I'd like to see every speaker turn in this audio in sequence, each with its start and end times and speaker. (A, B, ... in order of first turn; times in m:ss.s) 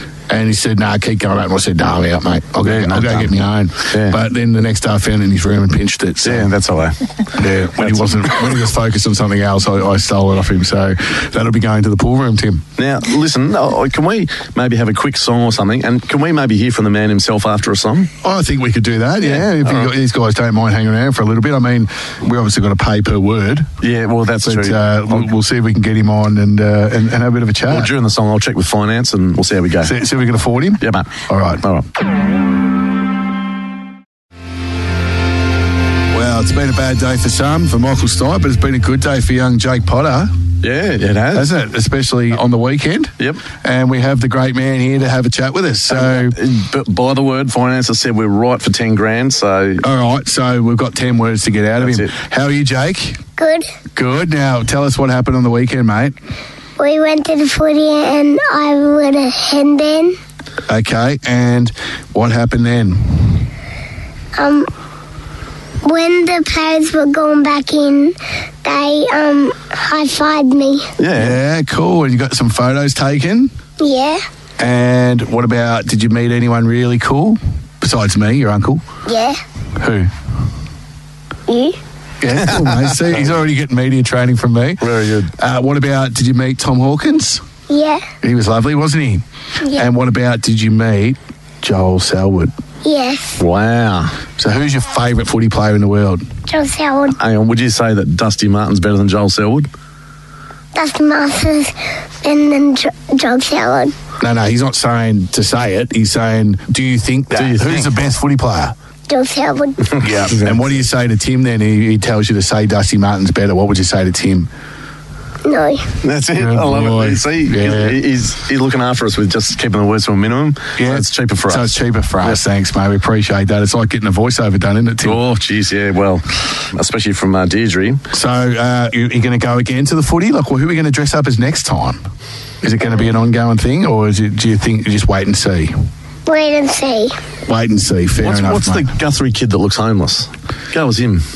0:00.3-0:06.5 A
0:02.6-0:03.3 B
0:03.9-0:04.2 B
0:06.2-0:07.0 B
0:07.3-0:12.7 A
0:07.8-0:08.1 B
0:12.8-0:18.1 B
0:18.2-0:23.7 A
0:19.2-0:19.9 B
0:23.8-0:25.3 B
0:24.4-0:27.9 A
0:27.7-0:30.0 B
0:29.8-0:31.6 A
0:30.8-0:31.9 B
0:36.1-0:40.4 A
0:40.6-0:41.5 B
0:41.3-0:46.4 A
0:45.9-0:49.8 B
0:49.8-0:53.2 A
0:51.8-0:52.1 B
0:53.4-0:53.7 C
0:54.0-0:56.2 A
0:56.8-1:00.2 C
1:00.7-1:03.5 A
1:04.4-1:04.7 C
1:05.8-1:10.9 C
1:11.0-1:11.4 B
1:11.2-1:13.5 A
1:13.8-1:14.2 C
1:14.6-1:18.9 A
1:19.1-1:19.4 C
1:19.8-1:20.1 A
1:21.5-1:21.8 C
1:22.2-1:27.4 A
1:22.3-1:23.4 B
1:24.8-1:25.3 B
1:27.7-1:28.1 C
1:28.2-1:32.5 A
1:32.8-1:33.4 C
1:33.4-1:34.2 B
1:34.4-1:36.3 A
1:36.5-1:37.2 C
1:37.2-1:39.7 B
1:40.8-1:43.9 C
1:44.2-1:48.8 A
1:47.3-1:48.0 B
1:49.1-1:50.1 C
1:50.0-1:54.5 A
1:50.3-1:50.6 B
1:55.4-1:55.9 C
1:56.0-2:02.4 B
1:56.3-1:58.0 A
2:00.8-2:05.2 A
2:05.0-2:08.0 B
2:08.1-2:12.0 A
2:12.6-2:15.7 A
2:16.3-2:17.2 C
2:17.5-2:18.9 A
2:18.2-2:21.2 B